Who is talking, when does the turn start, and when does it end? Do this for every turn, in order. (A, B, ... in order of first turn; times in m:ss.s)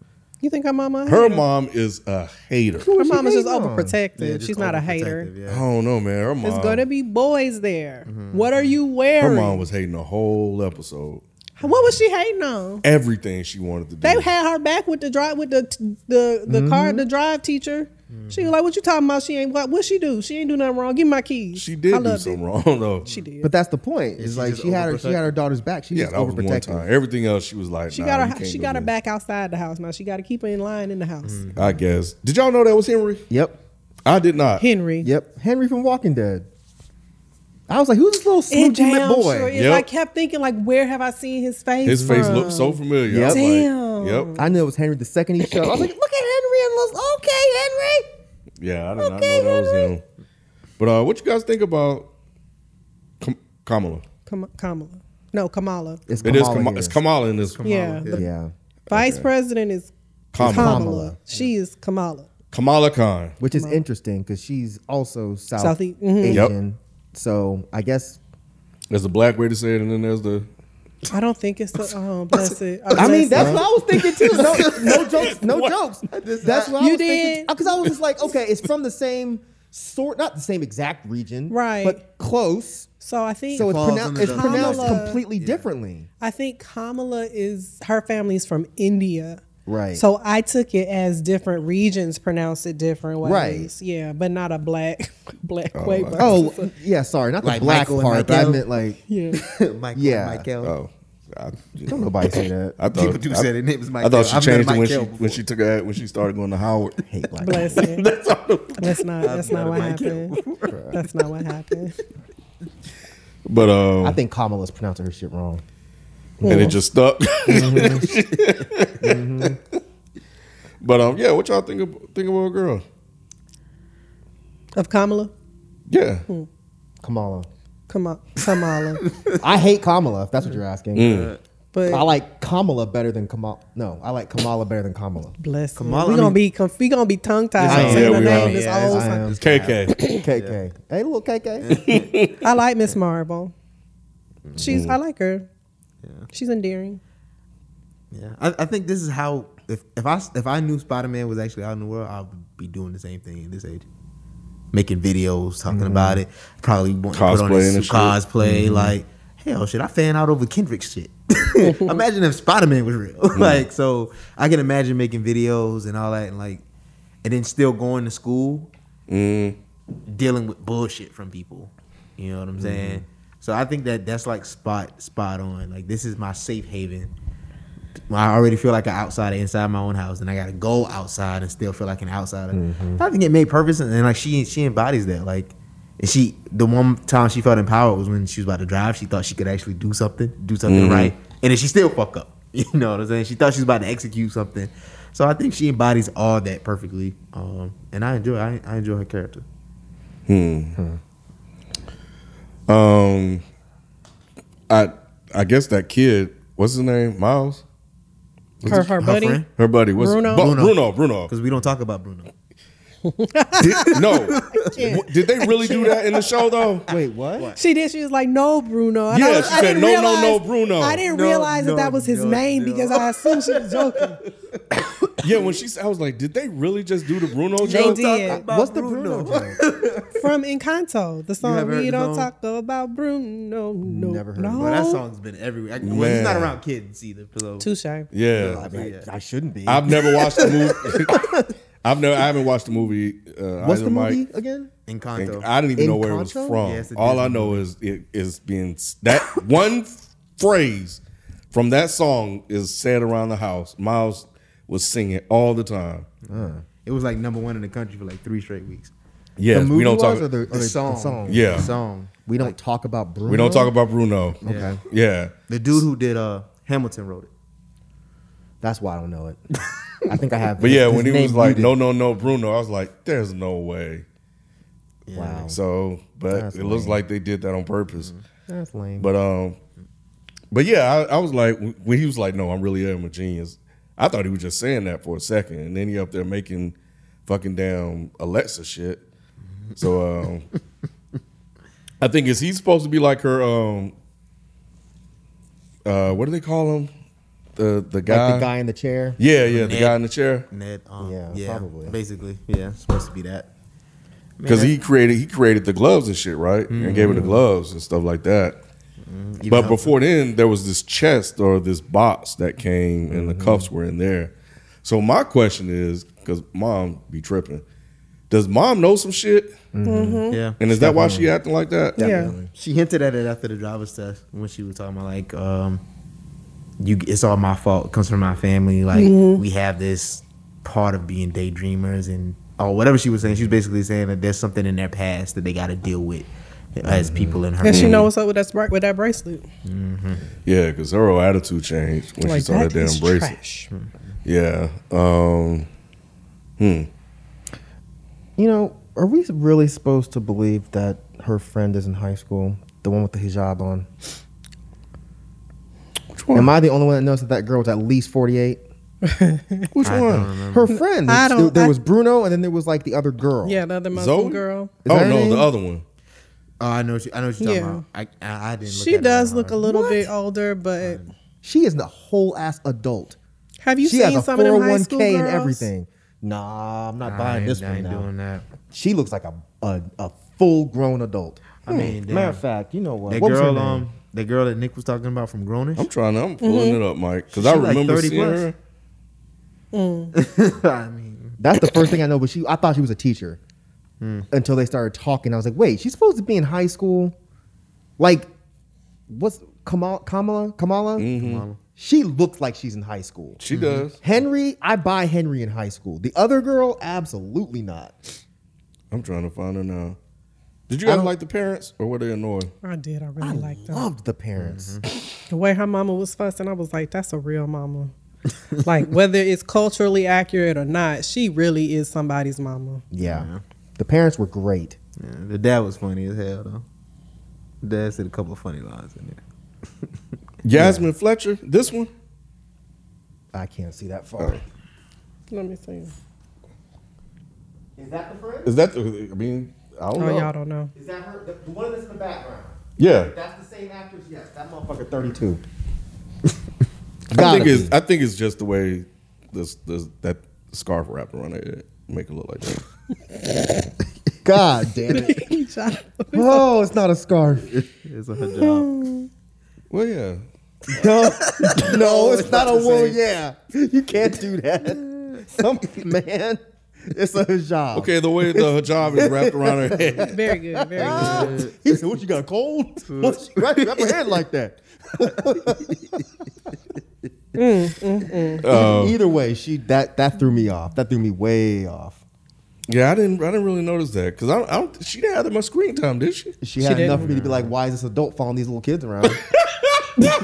0:00.4-0:01.4 A
0:01.1-0:02.9 B
0:02.8-0:04.0 C
0:02.9-0:05.3 A
0:04.2-0:05.6 D
0:05.5-0:06.8 B
0:06.4-0:09.7 A
0:08.1-0:08.8 D
0:09.2-0:11.2 B
0:11.6-0:12.8 A
0:12.8-0:14.3 B
0:14.0-0:22.4 A
0:16.5-0:17.1 C
0:18.1-0:18.5 D
0:21.6-0:23.1 B
0:23.0-0:23.5 A
0:23.4-0:26.9 C
0:24.2-0:25.3 D
0:25.9-0:28.9 B
0:27.9-0:31.4 A
0:31.2-0:31.8 D
0:31.6-0:33.2 B
0:33.3-0:33.6 C
0:34.0-0:34.6 B
0:34.6-0:35.1 A
0:35.0-0:36.5 C
0:37.7-0:39.6 C
0:38.5-0:44.4 A
0:39.6-0:39.9 B
0:41.8-0:44.3 B
0:41.9-0:42.4 C
0:43.1-0:43.4 C
0:44.4-0:48.1 C
0:48.6-0:50.0 B
0:49.0-0:49.9 A
0:50.8-0:52.1 B
0:53.2-0:54.0 B
0:54.3-0:56.0 A
0:56.1-0:57.0 C
0:56.1-0:56.6 D
0:56.2-0:57.6 B
0:57.4-0:58.3 D
0:57.6-0:58.2 A
0:58.1-0:58.5 C
0:58.9-0:59.3 B
0:58.9-0:59.9 A
1:00.3-1:00.9 B
1:00.4-1:01.2 C
1:00.4-1:02.3 A
1:02.5-1:03.4 B
1:03.4-1:08.2 C
1:03.5-1:03.8 A
1:05.6-1:06.5 A
1:08.9-1:10.5 B
1:11.1-1:13.6 A
1:12.9-1:22.9 C
1:13.0-1:15.2 D
1:13.4-1:13.6 B
1:14.2-1:15.8 B
1:16.1-1:16.8 D
1:16.8-1:17.5 A
1:21.5-1:22.0 A
1:23.0-1:25.2 A
1:23.5-1:26.1 C
1:23.6-1:25.6 D
1:26.2-1:29.4 A
1:29.7-1:30.0 C
1:30.0-1:36.7 A
1:33.2-1:33.7 C
1:35.8-1:36.4 B
1:36.2-1:39.0 C
1:37.4-1:38.7 D
1:39.1-1:39.4 A
1:39.3-1:40.7 D
1:40.0-1:40.5 C
1:40.6-1:47.0 B
1:41.9-1:42.8 C
1:42.9-1:45.4 D
1:47.1-1:47.8 C
1:47.4-1:48.1 A
1:47.8-1:48.8 B
1:48.8-1:50.4 A
1:49.2-1:50.8 D
1:50.7-1:51.0 C
1:50.9-1:52.0 A
1:53.4-1:54.2 B
1:54.0-1:55.6 C
1:56.4-1:56.8 C
1:56.4-1:56.8 A
1:56.4-1:59.2 B
1:57.5-1:58.1 C
1:57.6-1:58.1 D
1:59.0-1:59.6 C
2:00.8-2:02.8 B
2:04.8-2:05.3 A
2:05.9-2:06.2 B
2:07.0-2:07.5 C
2:07.9-2:09.0 A
2:09.0-2:09.4 D
2:09.4-2:11.3 C
2:11.0-2:11.4 B
2:11.0-2:11.4 D
2:11.7-2:12.1 A
2:11.9-2:15.4 C
2:15.4-2:19.3 A
2:15.8-2:16.4 D
2:17.6-2:20.6 D
2:17.7-2:18.6 B
2:17.7-2:19.4 C
2:19.4-2:20.1 B
2:20.1-2:21.9 C
2:21.6-2:22.2 D
2:21.8-2:22.4 B
2:22.4-2:23.5 A
2:24.6-2:25.5 A
2:24.6-2:25.0 B
2:26.0-2:26.3 D
2:26.3-2:27.0 A
2:28.1-2:33.9 D
2:34.7-2:46.6 D
2:35.7-2:36.2 C
2:37.1-2:38.2 B
2:38.4-2:39.0 C
2:41.6-2:42.0 A
2:43.4-2:43.6 B
2:47.2-2:48.7 D
2:49.1-2:49.6 B
2:50.1-2:57.1 D
2:52.6-2:53.0 C
2:58.1-3:19.4 D
3:02.5-3:03.0 C
3:10.7-3:11.1 B
3:20.3-3:20.8 B
3:22.7-3:23.4 B
3:24.7-3:27.6 B
3:28.6-3:28.9 B
3:28.6-3:29.5 D
3:28.6-3:29.4 A
3:29.6-3:31.3 B
3:30.0-3:30.5 A
3:30.4-3:32.3 D
3:33.0-3:36.0 A
3:33.6-3:34.6 D
3:33.8-3:36.9 B
3:36.8-3:37.6 D
3:36.9-3:37.5 C
3:37.6-3:44.2 A
3:39.1-3:41.0 B
3:41.0-3:45.6 D
3:45.2-3:48.0 B
3:47.6-3:50.2 D
3:47.7-3:48.4 A
3:48.3-3:49.6 C
3:50.2-3:55.0 A
3:51.4-3:52.3 D
3:53.8-3:54.8 C
3:54.6-3:57.7 D
3:55.8-3:56.6 B
3:57.6-3:58.1 A
3:58.1-3:58.6 B
3:58.4-3:59.1 D
3:58.4-4:01.5 C
3:59.7-4:04.2 B
4:00.1-4:01.1 D
4:03.6-4:04.7 C
4:04.9-4:05.5 D
4:05.2-4:16.1 B
4:05.8-4:06.7 C
4:06.6-4:07.6 D
4:16.3-4:16.6 C
4:16.4-4:18.9 D
4:19.4-4:20.3 B
4:19.5-4:21.7 C
4:20.5-4:22.6 D
4:21.3-4:21.7 B
4:22.2-4:23.7 C
4:23.3-4:25.8 B
4:24.4-4:24.8 C
4:24.4-4:24.8 D
4:25.5-4:27.3 D
4:28.6-4:29.4 C
4:30.0-4:31.7 C
4:30.6-4:34.0 B
4:35.1-4:35.4 D
4:35.1-4:35.6 C
4:35.4-4:38.1 B
4:36.3-4:37.0 C
4:38.5-4:39.1 C
4:39.0-4:39.6 B
4:40.5-4:46.8 B
4:47.3-4:49.0 B
4:49.8-4:50.5 B
4:52.0-4:53.9 B
4:55.8-4:56.9 B
4:57.6-4:58.5 B
4:58.1-4:59.2 C
4:59.2-5:00.5 B
4:59.5-5:00.0 D
5:00.5-5:03.5 D
5:01.0-5:02.0 C
5:04.4-5:04.8 D
5:04.5-5:08.6 B
5:06.7-5:07.4 D
5:07.0-5:07.4 C
5:09.0-5:10.0 D
5:09.5-5:14.3 B
5:13.1-5:13.7 C
5:14.8-5:17.6 B
5:18.3-5:19.6 B
5:19.7-5:21.3 C
5:19.8-5:20.4 A
5:20.3-5:20.6 D
5:20.6-5:22.1 B
5:22.0-5:22.5 C
5:22.0-5:22.4 A
5:22.5-5:25.8 D
5:26.8-5:38.1 D
5:28.9-5:29.4 A
5:36.8-5:37.4 C
5:37.6-5:39.4 A
5:37.6-5:38.1 B
5:39.6-5:40.2 D
5:40.5-5:43.4 B
5:42.2-5:43.7 A
5:44.2-5:45.7 B
5:46.6-5:46.9 B
5:48.4-5:53.9 C
5:56.1-5:56.5 B
5:56.3-5:58.6 C
5:59.0-5:59.7 A
5:59.7-6:00.3 B
5:59.8-6:00.7 D
6:00.5-6:03.6 C
6:00.7-6:01.8 A
6:03.4-6:04.7 A
6:03.9-6:05.8 B
6:04.8-6:05.5 C
6:06.6-6:10.1 D
6:07.4-6:07.8 A
6:08.7-6:11.1 A
6:10.8-6:11.1 D
6:11.4-6:13.2 C
6:13.6-6:15.7 A
6:13.8-6:18.1 C
6:17.0-6:18.5 D
6:18.7-6:23.9 C
6:21.6-6:22.4 D
6:23.1-6:25.9 D
6:25.8-6:28.6 B
6:26.4-6:26.8 A
6:27.3-6:28.5 D
6:29.7-6:30.1 A
6:30.2-6:31.4 D
6:31.4-6:33.4 C
6:34.0-6:34.3 D
6:34.3-6:37.2 C
6:38.0-6:38.3 C
6:39.1-6:41.1 C
6:41.0-6:41.5 B
6:41.2-6:41.6 D
6:41.8-6:43.4 C
6:43.4-6:44.0 B
6:43.5-6:43.9 D
6:44.0-6:48.0 C
6:48.9-6:50.0 B
6:50.7-6:52.5 B
6:50.8-6:51.1 C
6:52.6-6:53.9 A
6:53.2-6:54.8 C
6:54.4-6:54.8 D
6:55.3-6:57.9 A
6:58.6-7:02.8 A
7:02.9-7:04.8 C
7:03.0-7:03.4 D
7:05.0-7:06.6 D
7:07.6-7:09.2 D
7:10.4-7:11.9 B
7:10.5-7:10.8 C
7:13.3-7:14.4 C
7:15.3-7:15.9 A
7:17.8-7:18.5 C
7:18.4-7:20.3 B
7:20.0-7:20.7 A
7:20.8-7:25.4 C
7:22.8-7:23.1 B
7:27.1-7:27.8 C
7:27.1-7:32.6 B
7:34.2-7:35.2 C
7:34.9-7:36.5 A
7:36.1-7:37.6 C
7:37.5-7:38.7 D
7:38.2-7:39.1 A
7:39.7-7:40.2 B
7:40.7-7:56.0 C
7:40.7-7:43.0 D
7:44.7-7:45.7 D
7:47.7-7:50.2 B
7:50.0-7:51.4 A
7:50.8-7:51.6 D
7:52.8-7:54.2 D
7:57.4-7:58.4 A
7:58.4-7:59.0 B
7:58.4-8:02.0 C
8:02.7-8:07.5 B
8:06.4-8:09.2 C
8:06.6-8:07.1 A